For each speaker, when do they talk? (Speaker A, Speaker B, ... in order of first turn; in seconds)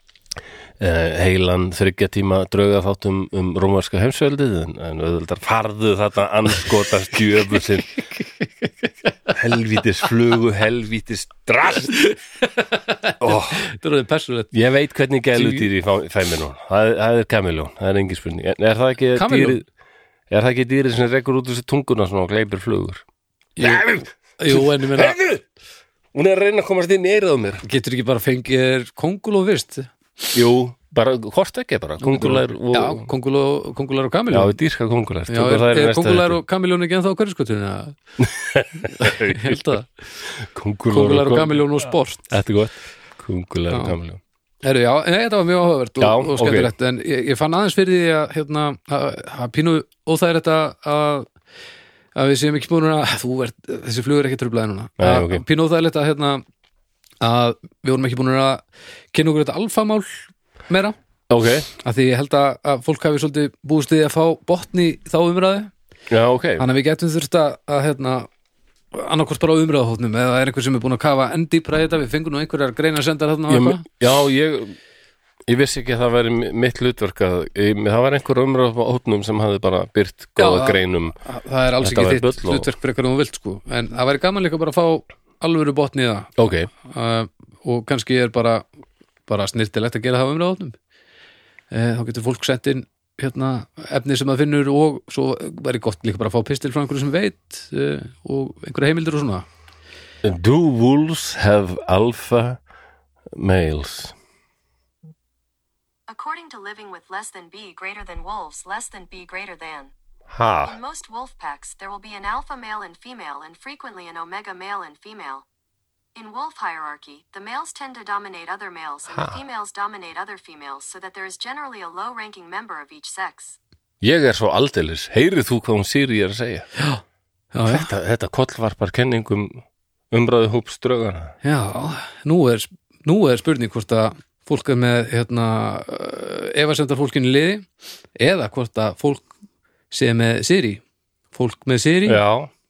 Speaker A: 0.8-7.9, 9.3-11.9, 13.2-13.7, 14.5-19.6, 20.3-23.0, 23.6-25.4, 26.1-27.6, 30.3-33.1, 34.3-36.4, 38.2-44.2, 46.0-46.7, 55.0-55.4, 61.3-61.7, 66.1-66.7, 73.5-74.8, 75.5-81.2, 81.8-82.7, 86.4-86.7, 100.2-102.6, 103.3-104.2, 110.3-110.8, 119.1-119.4, 124.0-126.7, 127.7-131.3, 142.1-142.5
Speaker B: 8.2-9.3, 11.9-14.5, 15.3-15.7, 19.1-19.6, 23.6-25.2, 27.6-29.9, 32.0-34.6, 35.3-38.0, 38.8-39.9, 40.9-42.3, 43.7-44.0, 44.6-51.3, 52.1-56.4, 57.2-61.0, 61.8-65.7, 66.6-68.3, 68.9-73.8, 80.4-88.7, 89.3-90.8, 91.7-99.5, 126.8-127.0, 127.5-127.9, 131.4-139.3, 139.9-142.2
Speaker C: 106.1-109.9, 110.7-115.5, 116.2-123.6